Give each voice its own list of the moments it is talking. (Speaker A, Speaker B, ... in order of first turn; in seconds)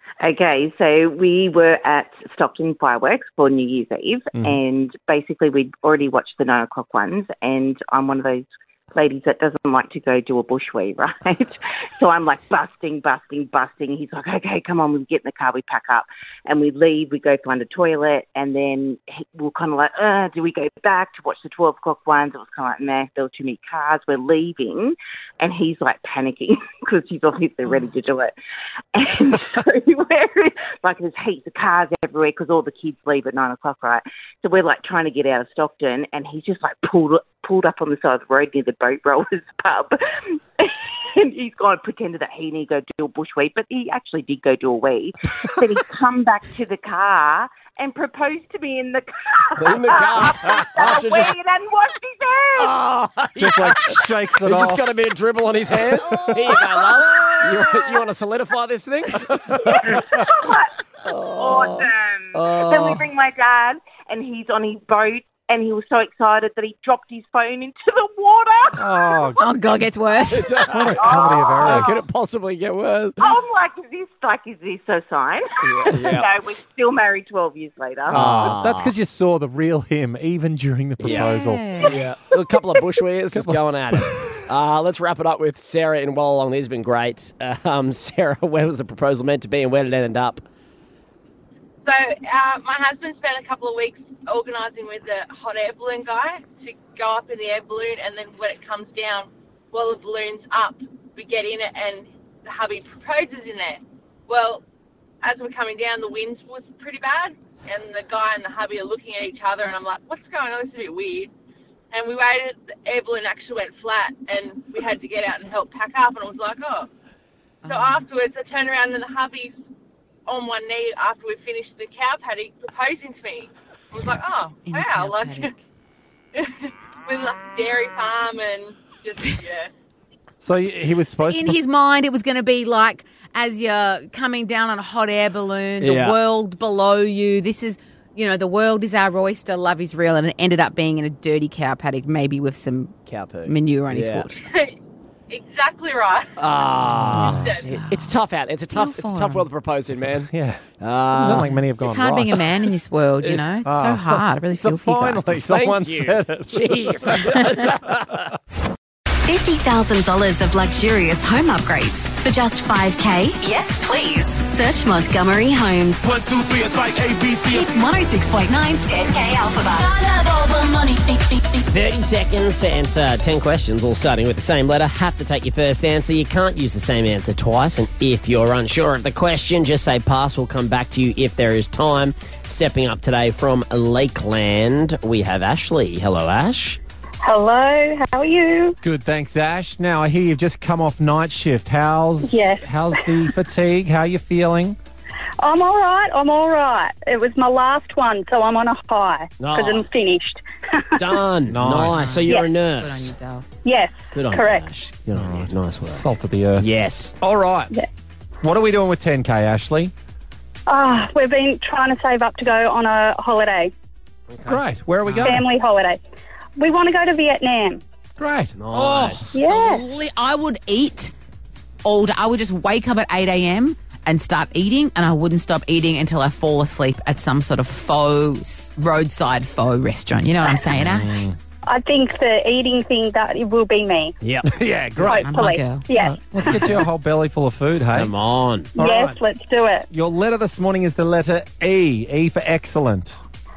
Speaker A: 0.2-28.3, 28.9-52.8, 59.6-69.4, 70.5-71.9, 73.2-78.5
Speaker B: 49.6-51.3, 52.6-60.0, 61.1-63.0, 70.3-73.3, 75.6-76.3, 78.1-78.9, 81.0-81.3, 81.8-90.5, 135.8-136.2, 143.1-144.3, 146.4-151.5, 155.4-158.3, 171.7-186.8, 199.4-199.9, 201.0-203.1, 204.2-206.1, 206.6-207.2, 214.3-214.6, 218.6-219.3, 234.2-234.5, 237.9-238.7
Speaker C: 53.4-54.9, 56.1-56.7, 68.8-69.4, 70.7-72.0, 78.1-82.0, 83.3-84.3, 130.4-131.6, 146.9-147.6, 150.2-152.5, 153.7-157.4, 188.8-194.8, 201.5-202.2, 205.1-206.7, 207.2-207.7, 208.4-209.9, 214.5-215.4, 218.2-218.5, 230.8-231.4, 234.5-235.3, 236.0-238.1, 238.8-239.2, 239.9-243.2
Speaker D: 69.4-70.5, 81.1-82.0, 117.6-118.0, 124.7-125.6, 131.2-144.4, 147.1-148.2, 148.7-149.5, 151.3-155.4, 201.9-203.5, 215.1-215.3, 218.7-221.1, 221.8-231.2, 235.2-235.9
Speaker E: 91.8-104.6, 105.2-111.3, 111.9-116.9, 117.7-119.7, 120.3-125.5, 126.3-129.7, 144.4-144.8, 145.3-146.3, 147.4-147.7
Speaker F: 159.2-166.8, 167.3-171.7
Speaker G: 187.2-188.8, 192.2-193.3, 195.4-201.2, 203.6-204.6, 210.7-213.7, 215.2-216.0, 216.6-217.8, 219.3-219.8, 231.7-234.1, 235.0-236.7, 238.8-239.9